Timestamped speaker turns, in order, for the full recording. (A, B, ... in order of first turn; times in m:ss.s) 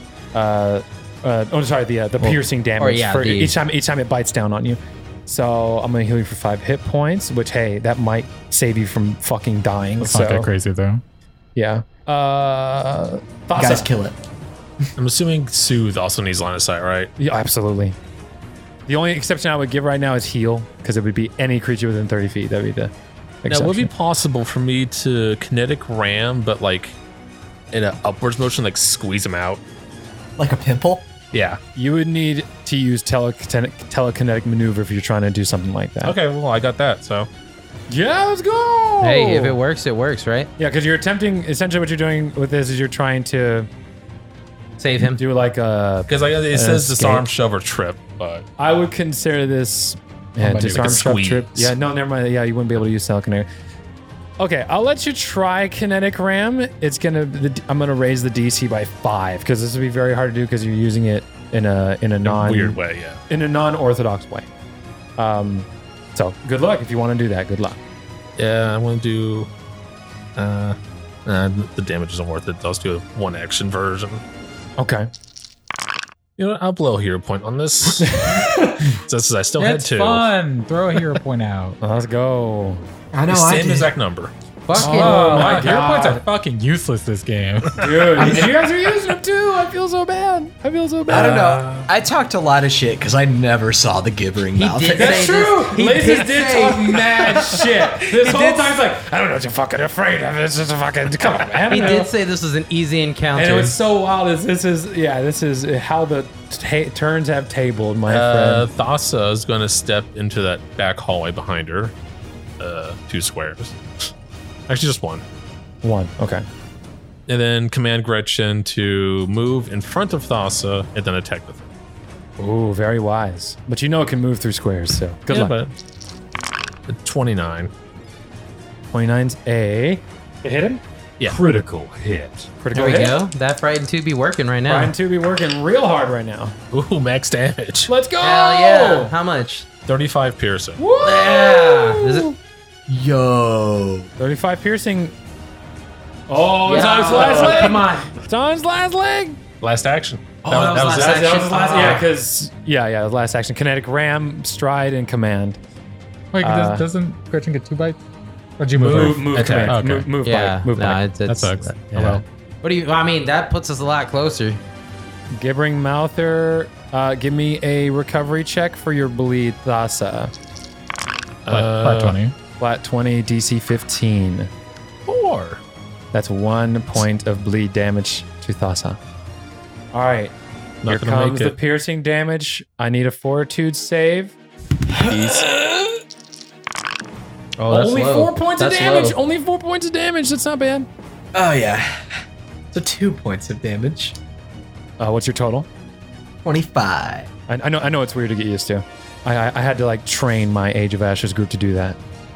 0:00.3-0:10.5 A
0:02.2-0:03.6 B
0:10.0-0:11.0 C
0:11.5-0:13.9 A
0:13.5-0:14.2 D
0:15.0-0:17.1 E
0:17.2-0:18.0 A
0:18.9-0:22.9 A
0:23.4-0:23.9 A
0:23.5-0:27.0 E
0:27.7-0:29.6 E
0:30.4-0:31.1 D
0:31.3-0:31.6 E
0:31.7-0:36.2 A
0:36.0-0:37.3 E
0:37.9-0:39.6 A
0:39.0-0:40.5 B
0:40.6-0:43.7 A
0:44.8-0:45.2 B
0:45.0-0:47.3 A
0:46.1-0:48.5 E
0:48.6-0:53.5 A
0:50.4-0:51.1 C
0:50.6-0:51.7 E
0:54.4-1:02.8 A
1:02.2-1:03.2 E
1:03.3-1:04.5 A
1:05.2-1:07.8 A
1:08.4-1:09.5 E
1:10.4-1:14.2 E
1:14.8-1:15.1 A
1:16.4-1:20.3 E
1:18.0-1:19.0 A
1:19.6-1:21.8 C
1:21.8-1:22.8 A
1:23.1-1:23.9 D
1:23.3-1:24.3 E
1:24.7-1:25.6 B
1:24.8-1:28.5 C
1:24.8-1:26.2 A
1:27.8-1:31.7 A
1:31.1-1:37.6 D
1:34.5-1:36.7 B
1:34.9-1:42.1 A
1:38.1-1:38.8 D
1:41.7-1:43.8 B
1:43.3-1:48.7 A
1:48.1-1:52.0 E
1:52.6-1:53.8 E
1:54.7-1:55.2 E
1:55.8-1:56.4 A
1:57.3-2:01.6 E
2:02.4-2:05.6 A
2:05.3-2:05.7 E
2:06.9-2:07.7 E
2:08.9-2:13.2 A
2:11.2-2:11.6 E
2:12.7-2:14.9 B
2:14.7-2:16.6 A
2:16.7-2:17.9 E
2:17.9-2:19.1 A
2:18.2-2:19.7 B
2:19.8-2:20.8 E
2:20.8-2:22.3 A
2:21.0-2:22.3 B
2:22.9-2:24.1 D
2:24.2-2:25.1 A
2:26.3-2:29.4 A
2:26.6-2:28.1 B
2:26.8-2:27.7 E
2:29.6-2:32.0 E
2:30.5-2:32.1 B
2:30.6-2:35.6 A
2:36.3-2:38.0 C
2:36.4-2:36.8 A
2:38.6-2:40.1 C
2:38.8-2:41.0 A
2:39.0-2:39.8 E
2:40.2-2:41.8 B
2:41.2-2:42.2 C
2:41.9-2:42.2 A
2:42.6-2:44.6 B
2:45.3-2:50.3 A
2:51.4-2:52.2 E
2:51.5-2:52.3 C
2:52.6-2:54.5 A
2:55.0-2:55.6 E
2:56.1-2:59.0 A
2:59.9-3:00.3 A
3:00.8-3:01.6 E
3:00.9-3:04.3 A
3:04.9-3:05.8 D
3:05.0-3:05.5 A
3:07.6-3:09.2 B
3:07.7-3:10.9 A
3:11.3-3:14.2 D
3:15.0-3:15.7 A
3:16.4-3:17.3 D
3:17.5-3:22.0 A